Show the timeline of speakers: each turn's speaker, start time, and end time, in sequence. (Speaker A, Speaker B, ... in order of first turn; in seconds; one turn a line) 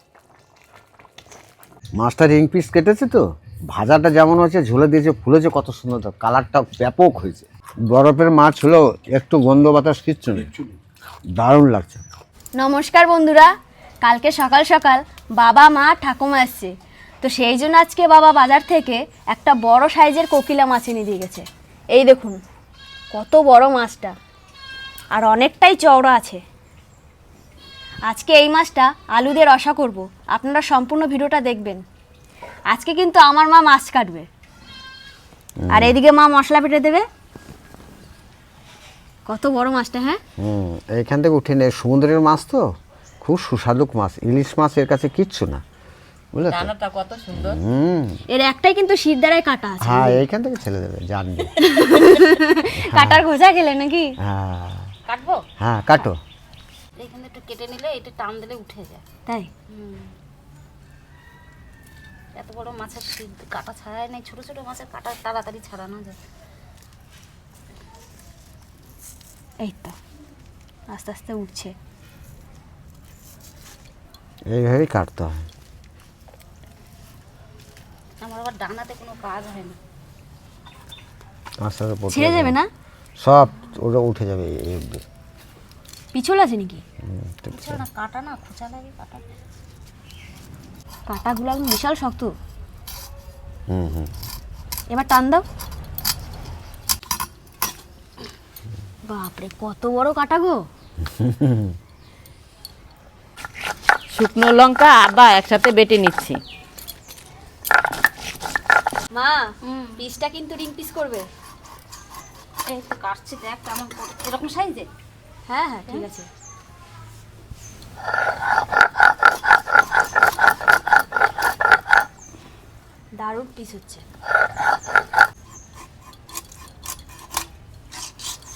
Speaker A: 1.9-10.5
Speaker A: 11.3-12.0
Speaker B: 12.6-16.7
Speaker B: 17.2-22.4
Speaker B: 23.1-24.1
Speaker B: 25.1-26.4
Speaker B: 28.1-31.8
Speaker B: 32.7-34.3
Speaker A: 35.6-36.0
Speaker B: 35.7-37.0
Speaker B: 39.3-40.2
Speaker A: 40.4-45.6
Speaker A: 46.3-46.7
Speaker C: 46.5-47.4
Speaker A: 47.3-48.2
Speaker B: 48.3-50.2
Speaker A: 49.8-51.6
Speaker B: 51.6-54.1
Speaker A: 52.8-53.2
Speaker A: 54.2-54.9
Speaker C: 55.1-55.4
Speaker A: 55.6-56.2
Speaker C: 57.0-59.0
Speaker C: 59.7-60.1
Speaker C: 62.3-66.2
Speaker B: 69.6-70.0
Speaker B: 70.9-71.7
Speaker A: 74.5-75.5
Speaker C: 78.2-79.8
Speaker A: 81.6-82.6
Speaker B: 82.1-82.7
Speaker A: 83.2-85.0
Speaker B: 86.1-86.8
Speaker A: 87.1-87.8
Speaker C: 87.5-89.2
Speaker B: 91.1-92.3
Speaker A: 93.7-94.1
Speaker B: 94.9-95.4
Speaker B: 99.1-100.6
Speaker A: 101.0-101.7
Speaker D: 104.1-106.4
Speaker B: 109.2-109.5
Speaker C: 109.7-110.0
Speaker B: 110.0-111.3
Speaker C: 112.7-114.9
Speaker B: 115.5-116.3
Speaker B: 123.2-124.0